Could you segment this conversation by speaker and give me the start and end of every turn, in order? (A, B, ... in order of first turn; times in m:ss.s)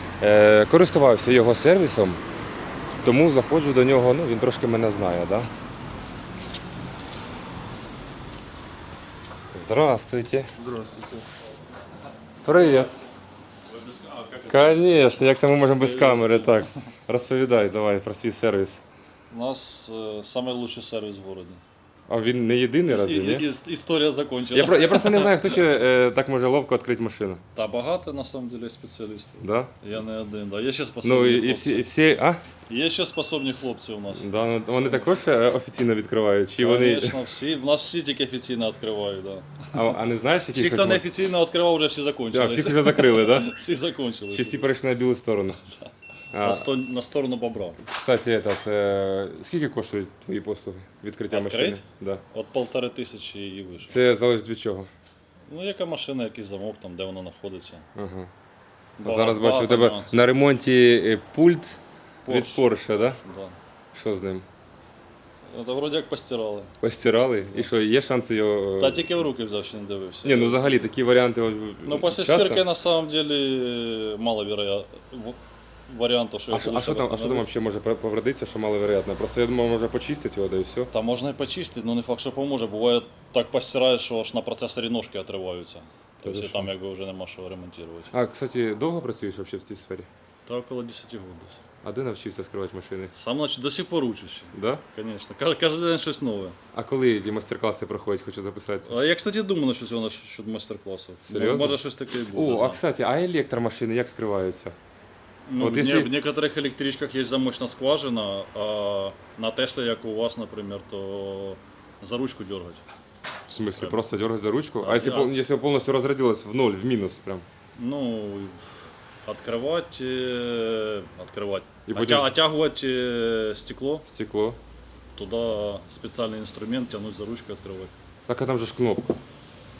0:00.2-0:02.2 A
0:03.0-0:05.5 A
0:09.5-0:10.5 A
0:10.6-0:11.2 B
0:12.4-0:12.9 A
0:12.5-0:13.0 B
0:13.7-0:15.0 B
0:14.5-0:18.8 A
0:15.7-0:16.7 B
0:19.3-0:21.6 B
0:22.1-0:23.5 A
0:22.9-0:25.6 B
0:24.5-0:27.4 A
0:27.5-0:32.0 B
0:29.4-0:29.7 A
0:31.0-0:32.4 A
0:32.7-0:34.3 B
0:34.2-0:37.2 A
0:34.8-0:35.0 B
0:36.6-0:39.7 B
0:39.7-0:41.0 A
0:40.5-0:44.7 B
0:42.3-0:43.5 A
0:44.3-0:45.6 A
0:45.6-0:47.8 B
0:46.3-0:46.7 A
0:47.8-0:52.2 A
0:51.3-0:54.0 B
0:53.9-0:54.9 A
0:55.5-0:57.9 B
0:58.0-0:58.3 A
0:59.0-1:00.3 B
0:59.0-1:03.2 A
1:02.2-1:03.6 B
1:03.9-1:04.4 A
1:05.5-1:06.7 B
1:06.8-1:09.0 A
1:08.8-1:10.8 B
1:10.2-1:12.6 A
1:11.8-1:17.5 B
1:16.5-1:20.9 A
1:20.9-1:28.1 B
1:26.2-1:26.7 A
1:28.1-1:30.1 A
1:30.4-1:31.6 B
1:31.8-1:33.1 A
1:33.1-1:36.6 B
1:34.5-1:34.8 A
1:36.7-1:38.9 A
1:38.8-1:42.8 B
1:41.3-1:41.8 A
1:42.3-1:44.7 A
1:45.5-1:52.8 B
1:45.6-1:46.1 A
1:53.5-1:57.4 A
1:53.6-1:54.0 B
1:54.8-1:55.3 B
1:57.8-2:04.0 B
2:01.8-2:02.3 A
2:04.0-2:04.6 A
2:05.2-2:07.9 B
2:08.3-2:09.2 A